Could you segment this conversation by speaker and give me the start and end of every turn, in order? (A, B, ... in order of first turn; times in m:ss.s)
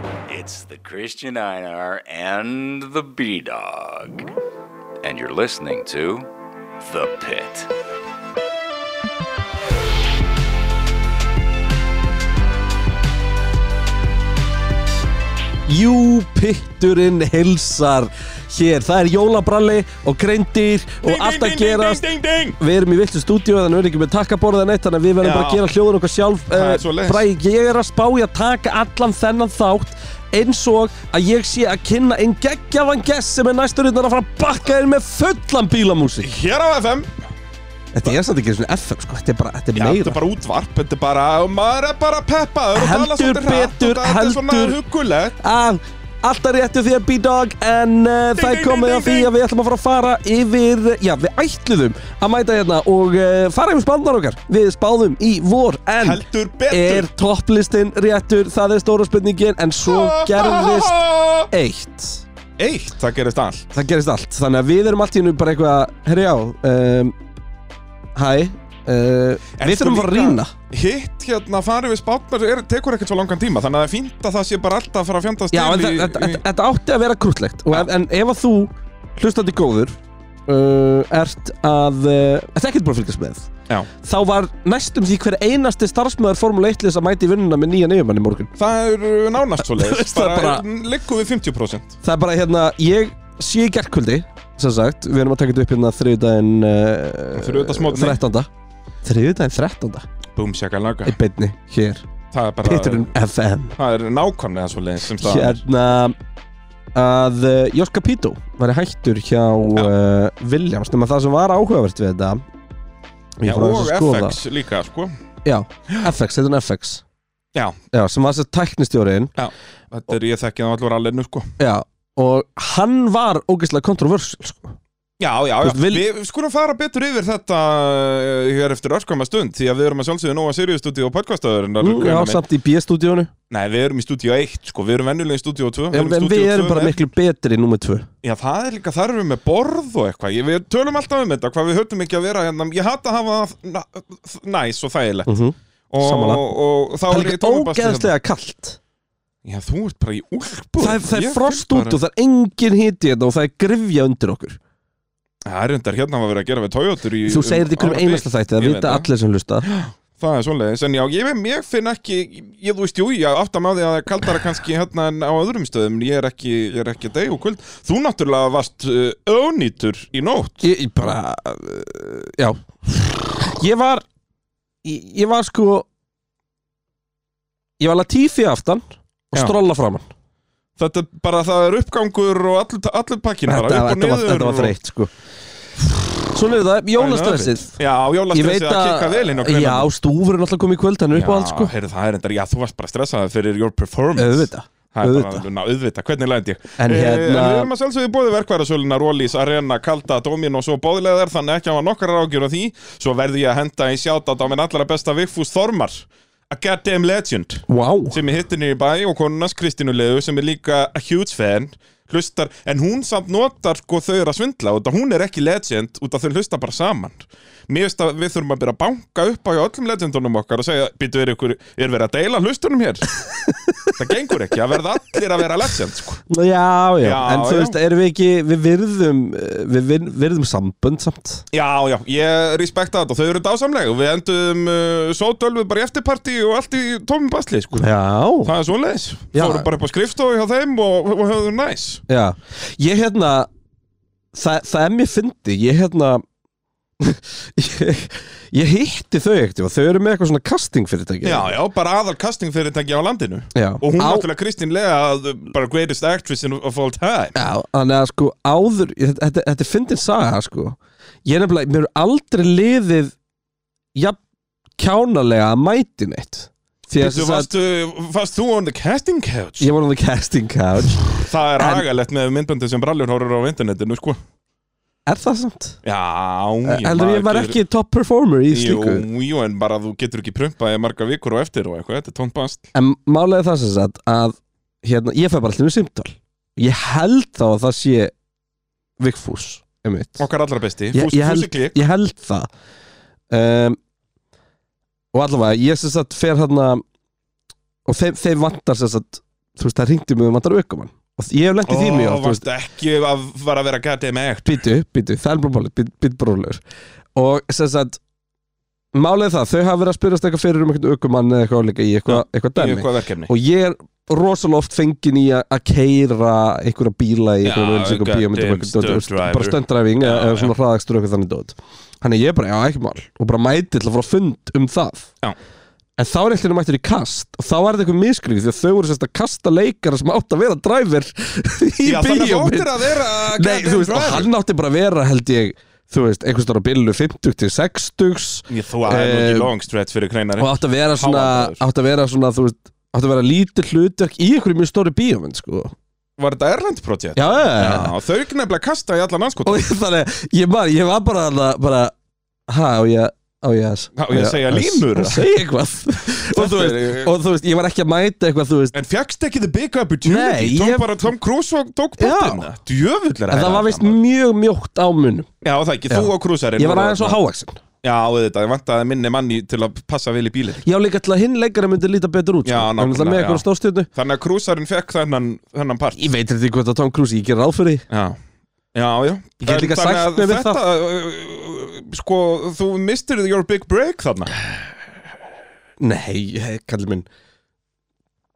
0:00.3-0:04.3 A
0:05.0-0:06.3 A
0:06.8-0:07.7 A
0:15.7-0:22.0 B
0:21.0-0:22.6 C
0:22.6-0:36.3 B
0:25.2-0:25.6 C
0:26.5-0:27.2 C
0:36.2-0:37.1 C
0:37.9-0:40.2 B
0:39.7-0:45.4 C
0:42.7-0:44.8 B
0:45.4-1:02.2 B
0:48.4-0:49.3 C
0:56.0-0:57.1 C
0:59.8-1:01.5 C
1:02.6-1:03.8 C
1:03.7-1:07.1 B
1:08.1-1:10.5 B
1:09.6-1:16.4 C
1:15.5-1:28.5 B
1:28.6-1:32.0 C
1:29.6-1:30.6 B
1:32.0-1:38.5 B
1:37.3-1:38.2 C
1:39.0-1:40.1 B
1:40.4-1:41.2 C
1:41.0-1:42.1 B
1:42.3-1:43.1 C
1:42.6-1:43.8 B
1:43.8-1:45.6 C
1:45.2-1:46.2 B
1:46.9-1:52.4 B
1:53.4-1:54.4 B
1:53.4-1:55.1 C
1:55.4-1:57.0 B
1:57.9-1:59.3 B
1:59.4-2:01.5 C
2:01.6-2:04.8 B
2:05.2-2:12.4 C
2:05.6-2:06.0 B
2:11.8-2:13.3 B
2:13.5-2:17.0 C
2:15.9-2:18.1 B
2:18.2-2:25.3 C
2:25.2-2:26.4 B
2:25.9-2:28.1 C
2:27.1-2:28.8 B
2:29.4-2:32.0 C
2:30.8-2:34.6 B
2:35.4-2:39.1 C
2:37.2-2:39.7 B
2:39.6-2:50.6 C
2:50.6-2:54.0 B
2:54.8-2:55.8 B
2:57.8-3:00.1 B
3:00.8-3:04.7 C
3:03.4-3:05.1 B
3:06.2-3:07.8 B
3:07.0-3:09.9 C
3:08.3-3:11.7 B
3:11.1-3:43.1 C
3:14.2-3:15.4 B
3:16.8-3:17.7 B
3:27.7-3:28.2 B
3:43.3-3:43.9 B
3:44.0-3:46.2 C
3:46.3-3:51.4 B
3:47.0-3:47.8 C
3:51.5-3:57.8 C
3:57.7-3:58.5 B
3:58.4-4:02.0 C
3:59.3-3:59.7 B
4:02.1-4:03.5 B
4:04.3-4:06.2 B
4:07.0-4:11.6 B
4:11.2-4:17.4 C
4:13.5-4:14.3 B
4:17.3-4:23.2 B
4:24.8-4:27.5 B
4:27.0-4:29.7 C
4:29.6-4:31.8 B
4:31.1-4:34.2 C
4:35.0-4:35.8 B
4:35.8-4:37.6 C
4:36.6-4:39.0 B
4:38.5-4:42.7 C
4:42.7-4:48.1 B
4:49.0-4:50.2 B
4:50.2-4:51.8 C
4:50.9-4:52.5 B
4:53.3-4:53.8 B
4:55.1-4:56.8 B
4:57.8-5:02.4 B
5:01.7-5:04.6 C
5:04.4-5:06.6 B
5:07.1-5:08.0 B
5:08.9-5:25.1 B
5:12.1-5:13.3 C
5:17.4-5:20.5 C
5:26.0-5:39.5 B
5:31.8-5:34.3 C
5:38.5-5:41.6 C
5:40.4-5:45.7 B
5:46.2-5:49.6 C
5:47.2-5:47.9 B
5:49.4-5:51.9 B
5:52.5-5:58.7 B
5:54.0-5:55.4 C
5:56.3-5:57.1 C
5:58.7-6:04.0 C
6:00.0-6:01.1 B
6:02.0-6:02.5 B
6:03.3-6:05.3 B
6:05.4-6:07.2 C
6:05.9-6:07.6 B
6:07.8-6:10.6 C
6:10.6-6:13.9 B
6:12.4-6:16.1 C
6:16.0-6:17.8 B
6:17.9-6:18.2 C
6:18.7-6:24.3 C
6:19.4-6:20.6 B
6:25.8-6:27.0 B